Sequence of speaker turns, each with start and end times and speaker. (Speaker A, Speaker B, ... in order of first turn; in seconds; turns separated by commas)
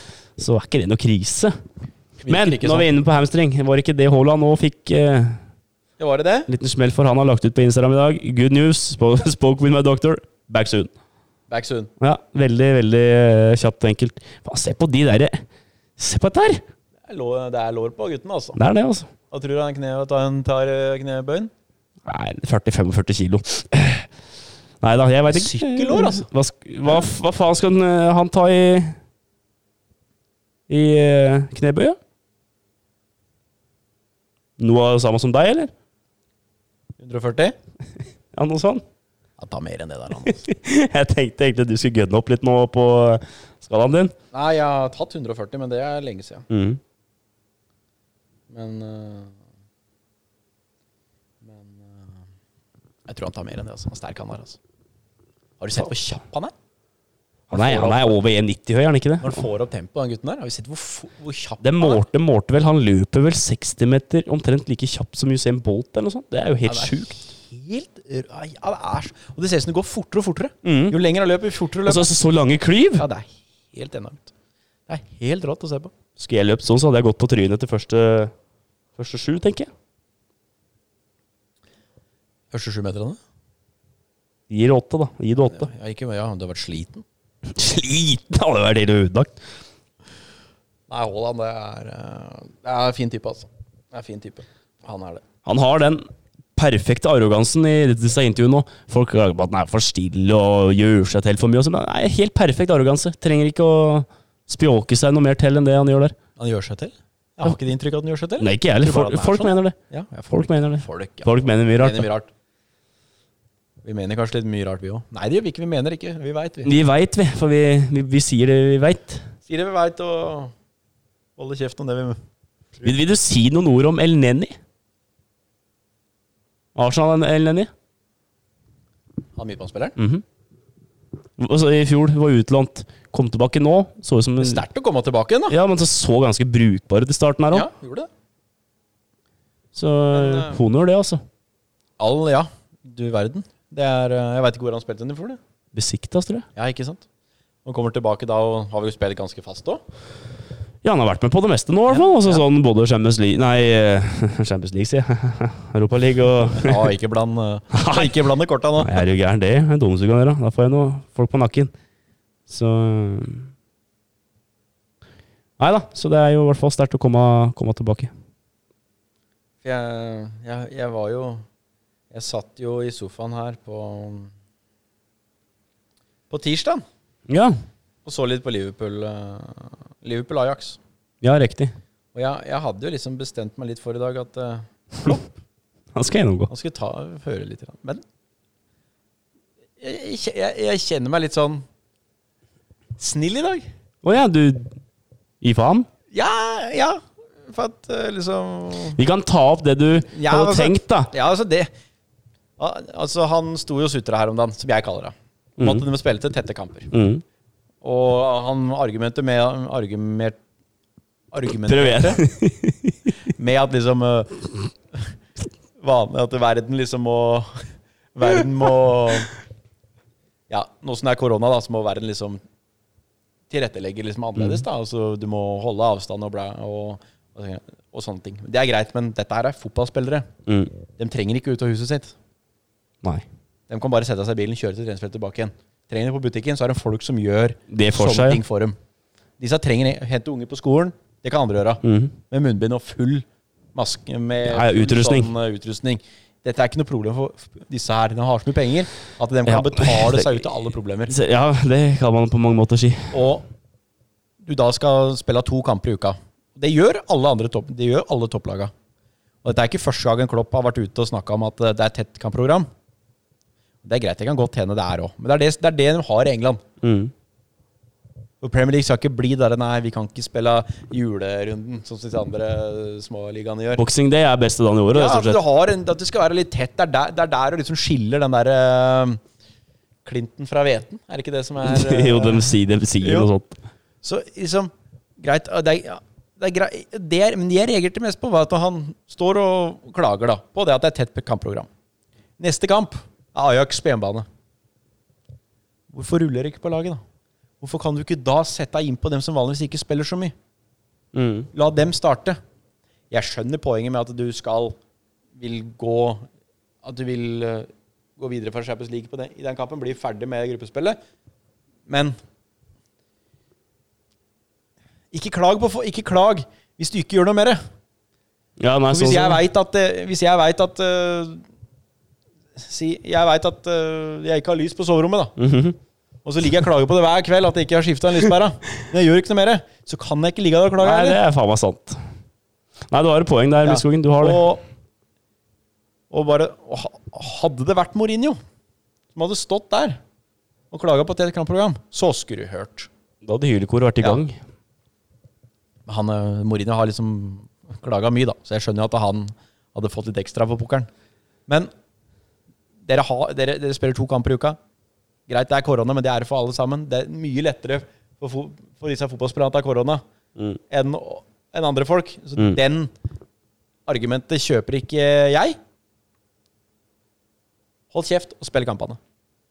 Speaker A: 0.4-1.5, Speaker B: 2.2-2.9, Speaker A: 2.3-5.4, Speaker B: 6.0-6.5, Speaker A: 6.5-10.9, Speaker B: 11.5-11.9, Speaker A: 12.0-15.4, Speaker A: 16.0-16.6, Speaker B: 17.1-18.6, Speaker A: 18.6-19.1, Speaker B: 19.3-21.5, Speaker A: 22.1-24.1, Speaker A: 24.8-29.0, Speaker B: 25.3-26.3, Speaker A: 30.7-32.0, Speaker A: 34.6-35.7, Speaker B: 37.0-37.6, Speaker A: 38.3-38.8, Speaker B: 39.4-40.4, Speaker A: 40.2-44.1, Speaker B: 44.3-46.5, Speaker A: 46.5-46.8, Speaker B: 48.5-49.4, Speaker B: 51.4-52.2, Speaker B: 53.1-54.6, Speaker B: 55.6-56.5, Speaker A: 57.5-59.5, Speaker B: 57.5-58.2, Speaker B: 59.2-62.0, Speaker A: 61.6-67.2, Speaker B: 66.7-72.1, Speaker A: 70.6-71.0, Speaker A: 71.8-73.1, Speaker B: 73.0-74.3, Speaker B: 74.9-75.9, Speaker A: 76.2-78.3, Speaker A: 79.0-79.7, Speaker B: 82.5-83.2, Speaker A: 84.5-85.7, Speaker B: 85.4-87.0, Speaker A: 87.5-89.3, Speaker B: 90.9-95.2, Speaker A: 95.5-96.0, Speaker A: 96.6-106.2, Speaker B: 106.4-112.3, Speaker A: 108.4-109.8, Speaker A: 110.3-112.1, Speaker B: 113.8-116.7, Speaker A: 116.6-119.3, Speaker B: 119.5-120.5, Speaker B: 121.4-122.2, Speaker A: 122.8-124.6, Speaker A: 126.8-127.7, Speaker B: 129.4-130.0, Speaker A: 130.0-130.2, Speaker A: 131.4-134.6, Speaker B: 134.4-135.6, Speaker A: 135.5-137.7, Speaker B: 137.5-138.1, Speaker A: 139.7-141.2, Speaker B: 140.1-140.6, Speaker B: 142.0-145.4, Speaker A: 145.7-146.5, Speaker B: 146.6-147.1, Speaker B: 147.7-149.8, Speaker A: 150.8-156.9, Speaker B: 151.9-152.4, Speaker B: 156.5-159.0, Speaker A: 157.7-158.2, Speaker A: 158.8-161.7, Speaker A: 162.5-163.5, Speaker A: 165.6-168.1, Speaker B: 169.6-171.4, Speaker B: 172.1-174.3, Speaker B: 176.3-176.8, Speaker A: 177.3-177.6, Speaker B: 178.1-180.8, Speaker A: 181.2-181.8, Speaker B: 182.1-185.3, Speaker A: 185.9-186.5, Speaker B: 186.5-188.0, Speaker B: 189.8-191.7, Speaker B: 193.0-193.7, Speaker A: 194.0-194.7, Speaker A: 195.4-195.9, Speaker B: 196.1-199.0, Speaker A: 198.9-201.1, Speaker B: 200.1-201.7, Speaker B: 202.6-206.9, Speaker A: 205.6-205.8, Speaker A: 206.9-207.2, Speaker B: 207.8-210.4, Speaker B: 211.3-212.2, Speaker A: 211.7-213.0, Speaker B: 213.3-215.1, Speaker B: 215.8-219.3, Speaker B: 220.5-222.4, Speaker B: 223.5-230.3, Speaker A: 224.4-224.6, Speaker A: 230.5-230.7, Speaker B: 231.0-232.2, Speaker B: 233.7-238.8, Speaker A: 237.7-238.4, Speaker B: 239.4-251.1, Speaker A: 241.8-242.1, Speaker A: 244.4-245.3, Speaker A: 249.5-250.5, Speaker A: 251.1-253.2, Speaker B: 253.1-253.4, Speaker B: 254.4-258.7, Speaker B: 259.4-262.7, Speaker B: 263.8-266.6, Speaker A: 266.8-267.1, Speaker B: 268.4-273.8, Speaker A: 273.8-275.4, Speaker B: 274.9-279.2, Speaker B: 280.1-283.3, Speaker A: 281.6-283.6, Speaker B: 284.0-291.7, Speaker B: 292.4-294.3, Speaker B: 295.9-297.0, Speaker B: 297.6-300.3, Speaker A: 301.1-301.5, Speaker B: 301.5-302.4, Speaker B: 303.1-304.8, Speaker B: 305.4-306.2, Speaker B: 306.8-311.0, Speaker B: 311.9-312.2, Speaker B: 315.1-317.6, Speaker A: 318.6-319.4, Speaker B: 318.9-321.4, Speaker B: 322.6-325.4, Speaker A: 325.4-325.8, Speaker B: 326.2-331.2, Speaker A: 330.8-332.0, Speaker A: 332.9-334.5, Speaker B: 333.6-334.6, Speaker B: 336.1-338.4, Speaker B: 339.1-340.0, Speaker B: 340.7-342.9, Speaker A: 343.2-344.4, Speaker B: 345.9-350.9, Speaker B: 352.8-354.6, Speaker B: 355.3-360.0, Speaker B: 360.7-362.9, Speaker B: 363.9-365.6, Speaker B: 367.9-369.0